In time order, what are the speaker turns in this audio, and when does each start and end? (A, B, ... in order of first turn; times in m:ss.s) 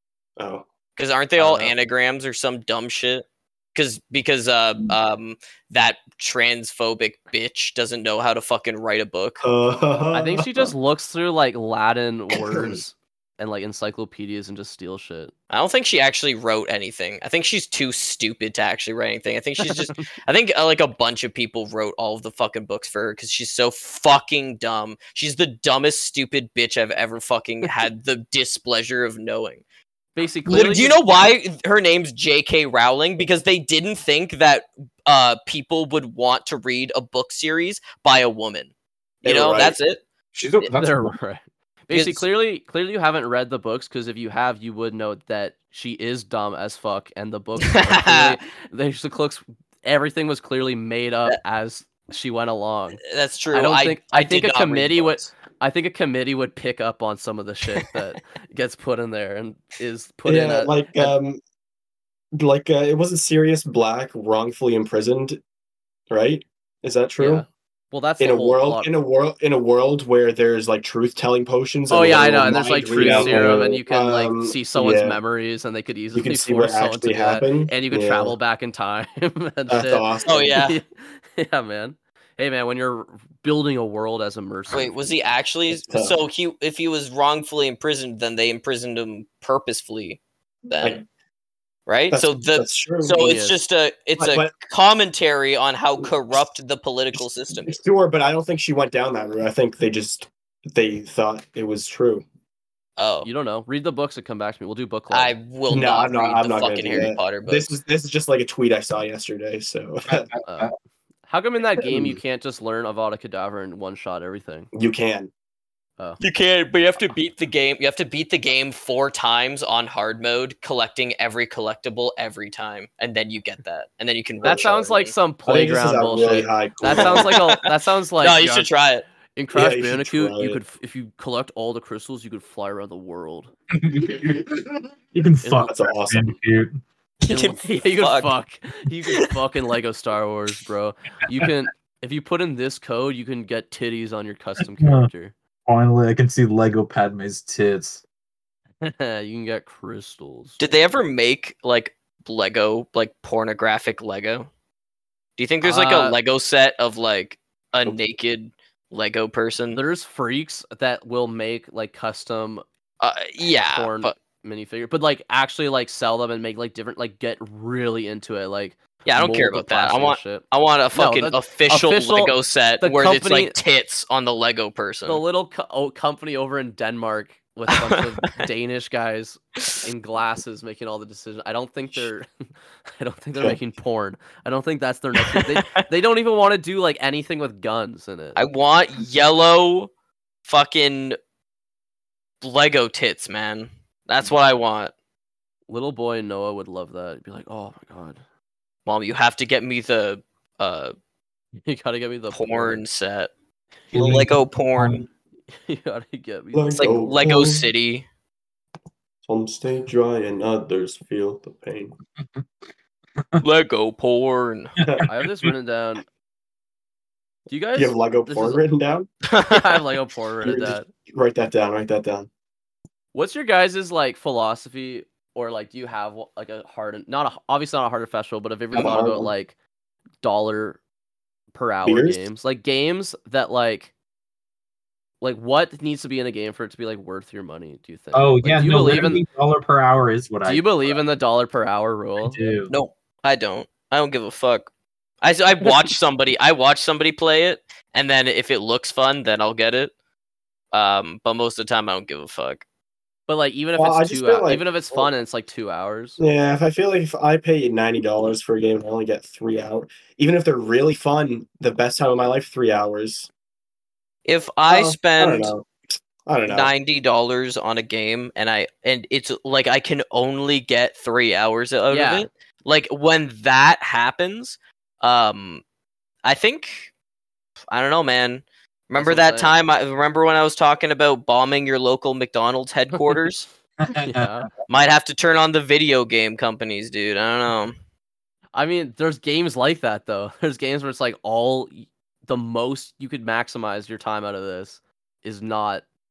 0:00.4-0:00.7 A
0:01.0-0:09.4 B
0:01.4-0:01.7 C
0:09.4-0:10.7 A
0:10.1-0:15.3 C
0:12.3-0:12.8 A
0:15.5-0:29.6 B
0:19.6-0:20.0 C
0:30.2-0:31.0 C
0:30.5-0:38.7 B
0:39.2-0:39.8 A
0:39.2-0:40.0 B
0:40.4-0:41.2 D
0:40.6-0:53.0 C
0:41.9-0:42.3 B
0:47.7-0:48.4 B
0:53.0-0:55.3 B
0:53.5-1:01.2 C
1:00.2-1:01.4 A
1:02.3-1:05.4 A
1:06.1-1:07.5 A
1:07.2-1:08.9 C
1:08.2-1:15.2 A
1:11.9-1:24.9 C
1:16.1-1:18.4 A
1:19.7-1:20.6 A
1:20.2-1:20.8 B
1:24.7-1:31.0 B
1:25.7-1:26.2 A
1:31.9-1:37.8 B
1:32.1-1:33.3 A
1:33.2-1:33.6 C
1:34.2-1:34.6 A
1:37.6-1:42.2 A
1:43.0-1:43.3 B
1:43.2-1:45.3 C
1:45.1-1:47.7 B
1:45.7-1:50.3 A
1:50.1-1:50.7 D
1:50.4-1:50.7 C
1:51.3-1:54.7 C
1:51.9-1:52.2 A
1:54.7-1:55.3 A
1:56.2-2:05.1 B
2:04.4-2:04.7 A
2:04.4-2:08.7 C
2:05.4-2:07.4 A
2:06.9-2:07.6 B
2:08.2-2:09.1 B
2:09.4-2:13.5 C
2:09.5-2:10.6 A
2:13.8-2:16.8 D
2:15.4-2:15.7 C
2:15.6-2:16.4 A
2:17.2-2:18.3 B
2:17.3-2:25.3 C
2:24.8-2:25.1 D
2:25.7-2:28.0 D
2:28.8-2:30.6 C
2:30.6-2:34.5 B
2:35.4-2:39.8 B
2:35.6-2:36.2 C
2:39.7-2:42.6 C
2:43.0-2:44.1 B
2:43.7-2:53.6 C
2:49.0-2:55.2 B
2:55.1-3:02.3 C
2:57.7-2:58.2 B
3:03.0-3:08.4 C
3:05.2-3:05.9 B
3:08.4-3:09.9 B
3:10.5-3:11.2 B
3:12.4-3:14.9 B
3:15.7-3:18.2 C
3:18.9-3:20.9 B
3:21.6-3:22.8 C
3:22.3-3:23.3 B
3:23.9-3:25.0 D
3:23.9-3:25.0 B
3:25.5-3:26.9 C
3:26.5-3:27.7 A
3:26.8-3:28.1 B
3:29.2-3:32.0 A
3:32.2-3:32.4 D
3:33.4-3:34.8 B
3:35.1-3:36.0 C
3:37.5-3:38.6 C
3:37.8-3:39.1 A
3:39.3-3:39.8 B
3:39.5-3:40.9 C
3:40.4-3:42.3 A
3:43.1-3:49.6 C
3:48.7-3:49.3 A
3:50.2-3:50.8 C
3:51.5-3:53.9 C
3:51.8-3:52.3 A
3:55.2-3:59.2 C
3:58.1-4:00.9 D
4:00.4-4:02.4 C
4:02.2-4:02.7 D
4:02.7-4:04.7 B
4:05.2-4:09.9 B
4:05.6-4:05.9 C
4:10.7-4:12.6 B
4:13.3-4:16.2 C
4:13.8-4:15.1 A
4:16.2-4:23.3 A
4:24.3-4:25.5 B
4:24.7-4:26.7 A
4:26.5-4:35.6 B
4:31.9-4:32.3 C
4:36.2-4:36.9 B
4:37.7-4:43.5 B
4:39.0-4:39.5 C
4:43.8-4:44.3 D
4:44.0-4:44.5 C
4:44.7-4:47.8 B
4:48.5-4:55.8 C